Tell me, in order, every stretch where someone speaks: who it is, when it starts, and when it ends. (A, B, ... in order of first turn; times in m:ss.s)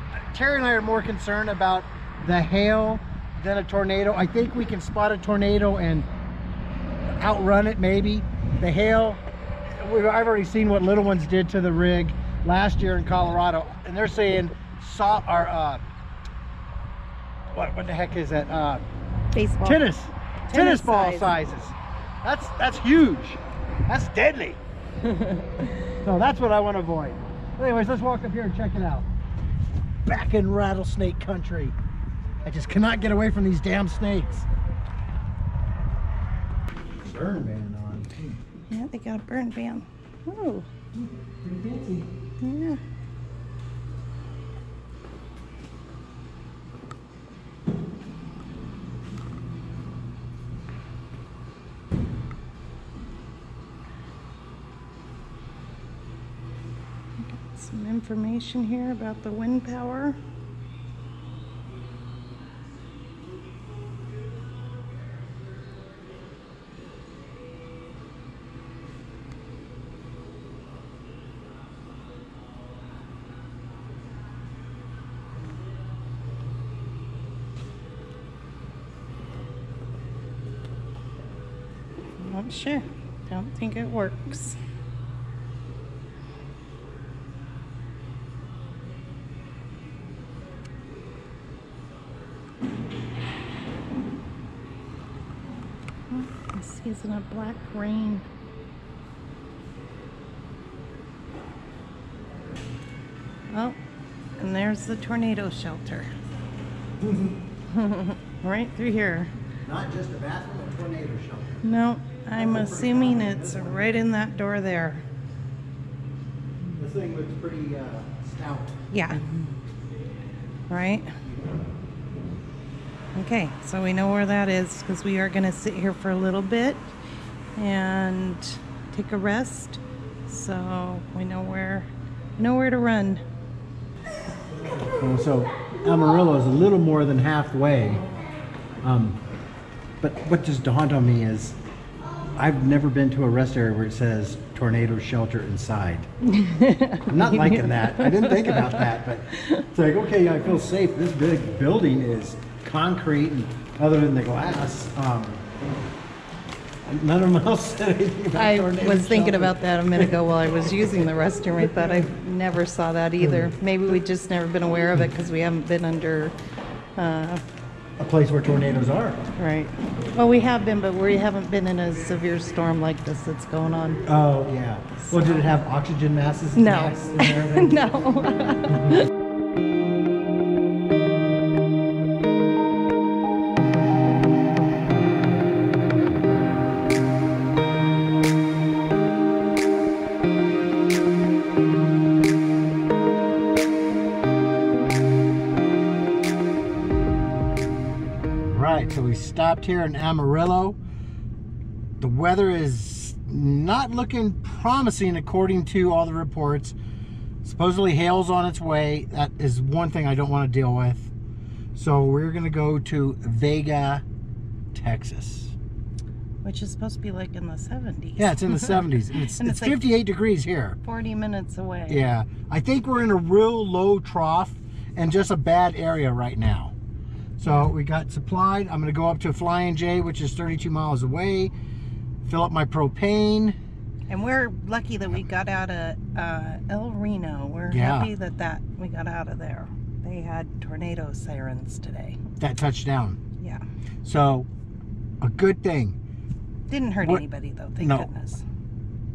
0:00.3-0:06.1 A
0:07.2-0:09.2 A
0:09.8-0:15.8 A
0:17.5-0:18.8 A
0:19.3-0:19.8 B
0:19.6-0:24.6 A
0:20.5-0:21.3 B
0:25.1-0:25.5 B
0:25.9-0:29.1 A
0:30.1-0:31.8 A
0:32.4-0:34.4 A
0:37.0-0:38.4 A
0:38.7-0:40.7 B
0:41.0-0:42.1 A
0:42.4-0:42.8 B
0:57.2-1:00.2 B
1:22.2-1:24.6 B
1:36.1-1:38.2 B
1:44.4-1:46.1 B
1:47.0-1:47.4 A
1:47.7-1:49.3 B
1:49.6-1:51.6 A
1:51.6-1:55.0 B
1:52.4-1:53.9 A
1:56.8-1:58.8 A
1:58.9-1:59.4 B
2:00.7-2:01.1 B
2:03.1-2:06.9 B
2:07.6-2:13.2 B
2:15.0-2:18.0 A
2:18.8-2:19.2 A
2:20.0-2:21.6 A
2:22.4-2:26.1 A
2:26.2-2:29.6 B
2:27.1-2:35.4 A
2:36.9-2:40.2 A
2:38.4-2:46.4 B
2:43.2-2:43.5 A
2:47.0-2:47.4 B
2:48.0-2:49.2 A
2:49.4-2:54.0 B
2:54.0-2:57.9 A
2:55.0-2:55.5 B
2:56.5-2:59.1 B
3:18.4-3:20.8 A
3:22.0-3:26.8 A
3:27.4-3:31.1 A
3:31.8-3:34.0 A
3:34.7-3:35.5 A
3:36.4-3:39.8 B
3:38.2-3:40.8 A
3:40.8-3:42.0 B
3:41.9-3:46.7 A
3:47.4-3:51.5 A
3:52.2-3:53.6 A
3:54.1-4:02.2 B
3:57.7-3:58.1 A
4:02.4-4:03.2 A
4:04.0-4:04.5 A
4:05.2-4:06.0 A
4:06.7-4:08.4 B
4:07.8-4:08.1 A